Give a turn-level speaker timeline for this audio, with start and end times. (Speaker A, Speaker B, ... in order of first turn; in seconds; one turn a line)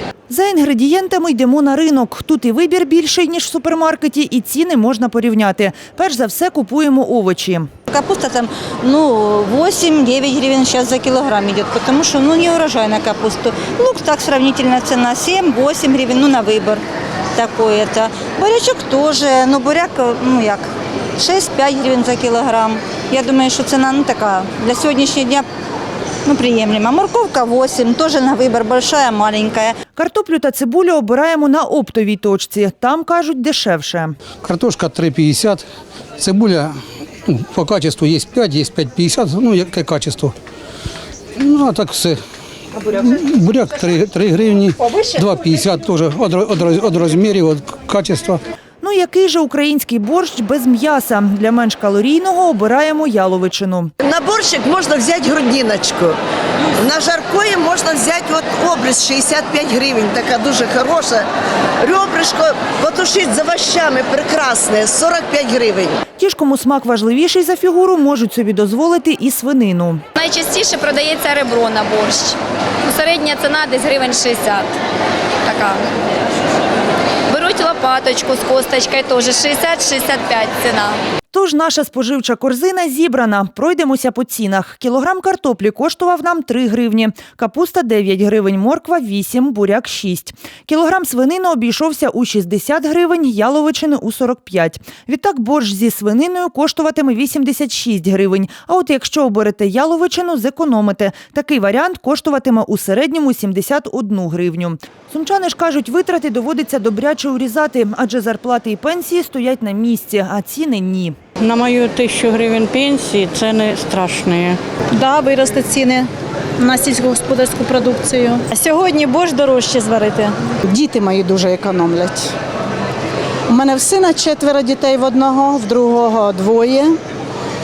Speaker A: 0.3-7.7
Speaker B: 7.9-16.8
Speaker B: 17.4-20.7
Speaker B: 21.2-25.5
Speaker B: 26.3-29.8
Speaker A: 30.0-34.1
Speaker C: 34.4-35.6
Speaker C: 36.2-36.8
Speaker C: 37.3-40.4
Speaker C: 41.4-42.2
Speaker C: 42.8-48.4
Speaker A: 48.8-53.9
Speaker D: 54.0-56.2
Speaker D: 56.8-61.3
Speaker D: 61.8-66.0
Speaker A: 66.2-70.0
Speaker E: 70.2-74.7
Speaker E: 75.5-75.9
Speaker E: 77.3-81.0
Speaker A: 81.3-111.2
Speaker F: 111.4-114.6
Speaker G: 115.0-116.1
Speaker G: 116.6-120.3
Speaker H: 120.7-122.3
Speaker H: 123.5-127.0